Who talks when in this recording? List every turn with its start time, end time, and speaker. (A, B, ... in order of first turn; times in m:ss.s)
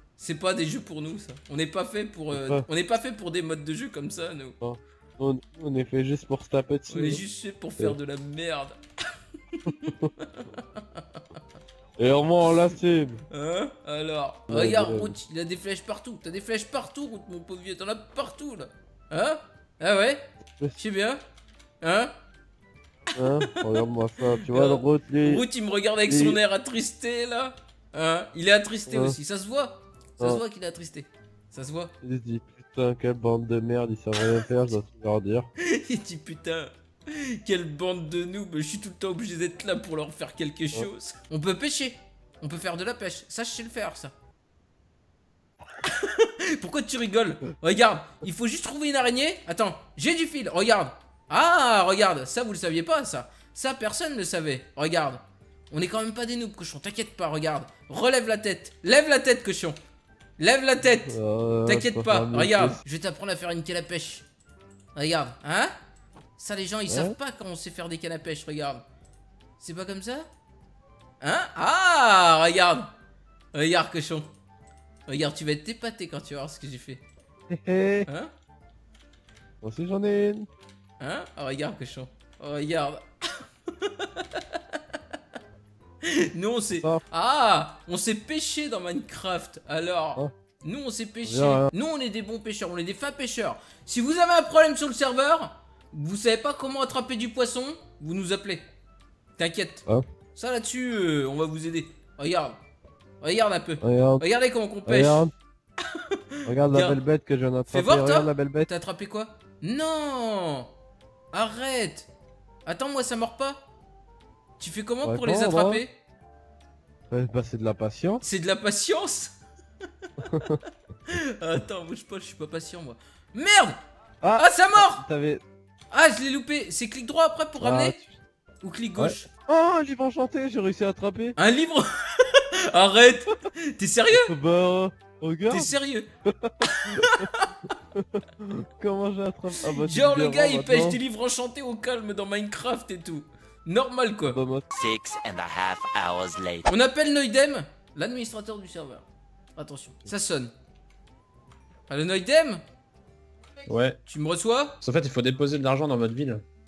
0:00.2-0:04.6 A
0:02.3-0:02.7 B
0:04.6-0:07.2 B
0:06.9-0:08.8 A
0:09.5-0:11.2 A
0:12.0-0:13.2 B
0:13.3-0:20.3 A
0:14.5-0:15.2 B
0:20.5-0:20.8 B
0:20.8-0:21.2 A
0:21.8-0:22.1 A
0:23.2-0:25.5 B
0:23.2-0:31.9 A
0:26.1-0:26.4 B
0:28.9-0:29.2 B
0:32.0-0:35.5 B
0:35.6-0:44.1 A
0:45.8-0:59.8 A
1:00.4-1:01.1 A
1:01.1-1:02.8 B
1:01.7-1:04.3 A
1:05.0-1:05.7 A
1:06.4-1:08.8 A
1:06.9-1:07.2 B
1:09.6-1:10.3 A
1:11.2-1:12.9 A
1:13.5-1:14.3 A
1:15.1-1:17.0 A
1:17.5-1:18.1 B
1:19.6-1:20.5 B
1:21.0-1:25.0 A
1:26.0-1:38.6 A
1:26.7-1:27.0 B
1:31.2-1:31.7 B
1:39.4-1:39.8 A
1:40.4-1:42.6 A
1:43.2-1:45.3 A
1:43.8-1:44.2 B
1:44.9-1:45.3 B
1:45.8-1:47.0 A
1:46.4-1:48.7 B
1:47.7-1:50.7 A
1:51.3-1:52.1 A
1:52.7-1:53.6 A
1:54.6-1:55.9 A
1:55.0-1:55.8 B
1:57.1-1:58.2 B
1:58.2-1:59.4 A
2:00.2-2:00.6 B
2:01.1-2:03.8 A
2:04.2-2:05.4 B
2:04.4-2:05.0 A
2:05.9-2:08.0 A
2:07.6-2:08.2 B
2:08.6-2:09.3 A
2:09.0-2:11.4 B
2:11.4-2:14.3 A
2:14.1-2:17.3 B
2:15.5-2:16.1 A
2:16.6-2:17.6 A
2:18.0-2:21.0 B
2:19.6-2:24.4 A
2:24.2-2:24.7 B
2:24.7-2:26.7 C
2:26.7-2:29.0 A
2:29.6-2:30.5 A
2:31.9-2:32.6 A
2:33.7-2:34.0 D
2:34.1-2:34.8 A
2:34.8-2:36.4 D